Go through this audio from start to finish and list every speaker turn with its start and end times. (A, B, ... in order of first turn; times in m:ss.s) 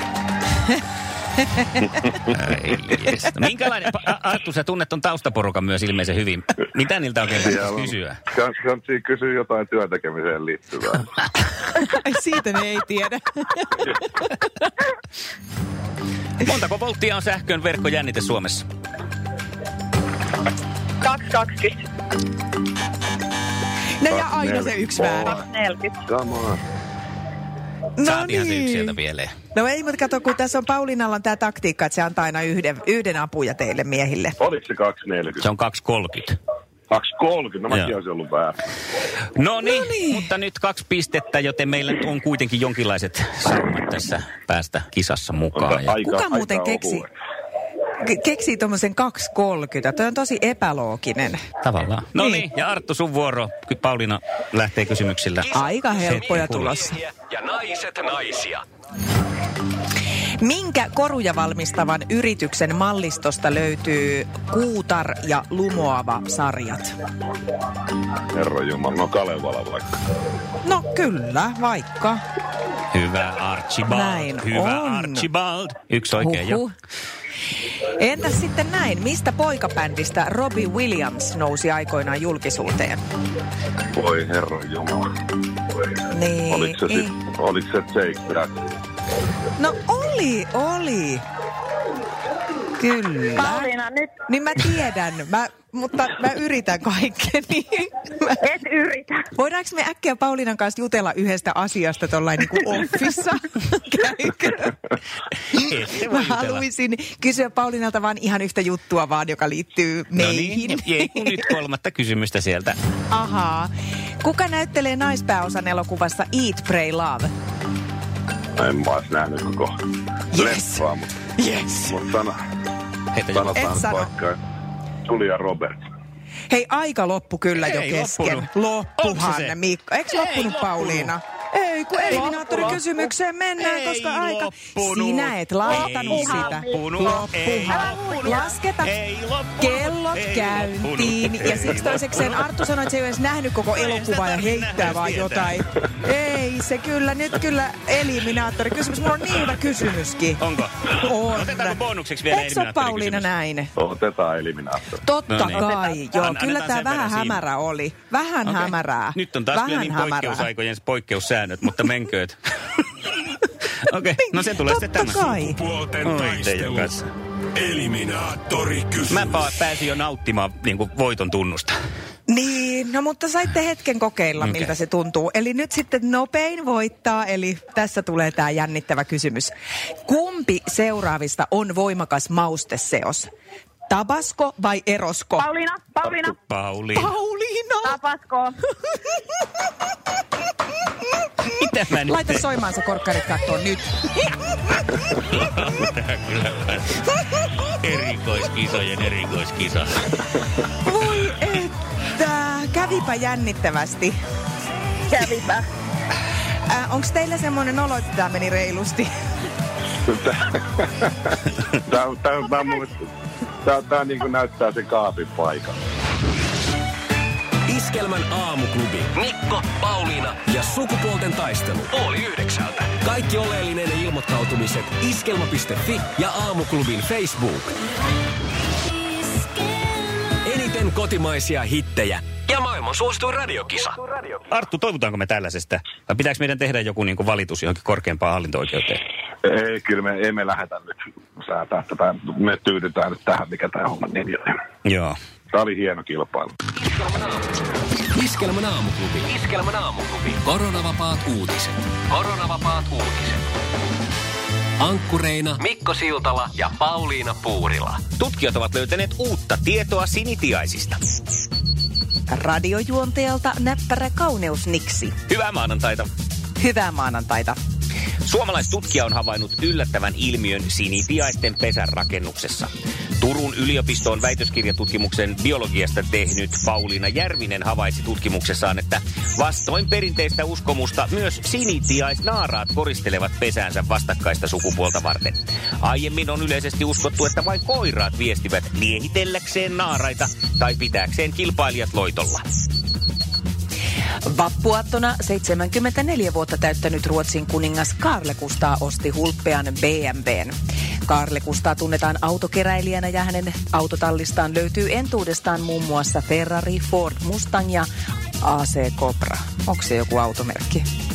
0:02.3-0:08.2 A
0:07.4-0:11.2 B
0:11.8-0:14.5 C
0:16.4-0:18.7 A
0:21.0-0:21.9 D
0:24.0-0:25.4 C
0:24.1-0:25.4 B
0:25.3-0:26.0 D
0:26.1-0:26.6 B
0:28.0-0:29.0 C
0:28.0-0:29.3 A
0:29.5-0:34.4 C
0:34.4-0:35.5 B
0:35.4-0:36.4 A
0:36.9-0:38.6 B
0:39.4-0:46.0 A
0:39.7-0:40.2 C
0:45.6-0:47.1 B
0:46.0-0:47.1 C
0:48.0-0:51.4 C
0:51.6-0:56.8 A
0:52.2-0:52.5 C
0:55.4-0:58.6 E
0:55.5-0:57.0 C
1:00.4-1:07.0 C
1:08.3-1:10.0 B
1:10.6-1:12.2 C
1:12.9-1:16.6 A
1:13.9-1:15.3 C
1:16.2-1:16.7 C
1:18.0-1:23.0 C
1:23.9-1:25.1 B
1:26.1-1:27.2 C
1:26.5-1:28.5 B
1:29.6-1:31.2 C
1:32.8-1:33.7 C
1:33.4-1:34.1 D
1:34.3-1:38.4 C
1:38.4-1:39.3 D
1:39.4-1:44.8 C
1:45.5-1:46.7 A
1:45.5-1:51.3 C
1:50.2-1:52.8 A
1:53.1-1:53.7 C
1:54.2-1:57.3 C
1:58.6-1:59.7 B
2:00.3-2:00.9 C
2:00.3-2:01.2 B
2:01.7-2:02.4 B
2:03.1-2:03.6 A
2:03.3-2:04.4 B
2:03.5-2:04.1 C
2:05.1-2:05.8 B
2:06.5-2:18.9 C
2:07.6-2:09.6 A
2:10.1-2:11.1 A
2:12.0-2:12.8 A
2:12.1-2:12.8 D
2:13.6-2:22.5 A
2:15.7-2:18.4 D
2:19.6-2:33.7 C
2:23.8-2:25.6 A
2:30.4-2:33.3 A
2:33.8-2:35.0 B
2:35.0-2:40.5 C
2:35.3-2:37.4 A
2:38.4-2:42.8 A
2:43.8-2:45.4 A
2:44.3-2:45.6 C
2:45.5-2:46.9 E
2:46.0-2:47.1 A
2:47.6-2:49.5 E
2:49.1-2:51.8 A
2:52.3-2:59.5 C
2:54.4-2:54.7 A
3:00.0-3:03.3 C
3:03.9-3:05.5 C
3:05.4-3:06.4 D
3:06.3-3:07.1 A
3:07.0-3:08.0 C
3:07.8-3:08.6 D
3:08.8-3:09.2 C
3:11.5-3:12.4 A
3:12.0-3:15.4 C
3:18.1-3:20.0 A
3:20.8-3:24.2 C
3:25.1-3:25.6 D
3:26.7-3:29.1 C
3:30.1-3:33.0 B
3:33.6-3:35.8 B
3:37.7-3:47.7 E
3:50.4-3:54.3 E
3:54.5-3:59.0 A
3:59.4-4:04.6 B
4:04.8-4:05.2 A
4:05.5-4:06.5 B
4:06.8-4:07.6 E
4:08.1-4:13.4 E
4:14.8-4:18.0 E
4:18.2-4:21.0 A
4:22.3-4:25.2 C
4:25.3-4:26.1 A
4:26.6-4:27.6 C
4:28.2-4:52.4 A
4:54.3-5:00.6 C
5:01.1-5:07.9 C
5:08.4-5:10.8 C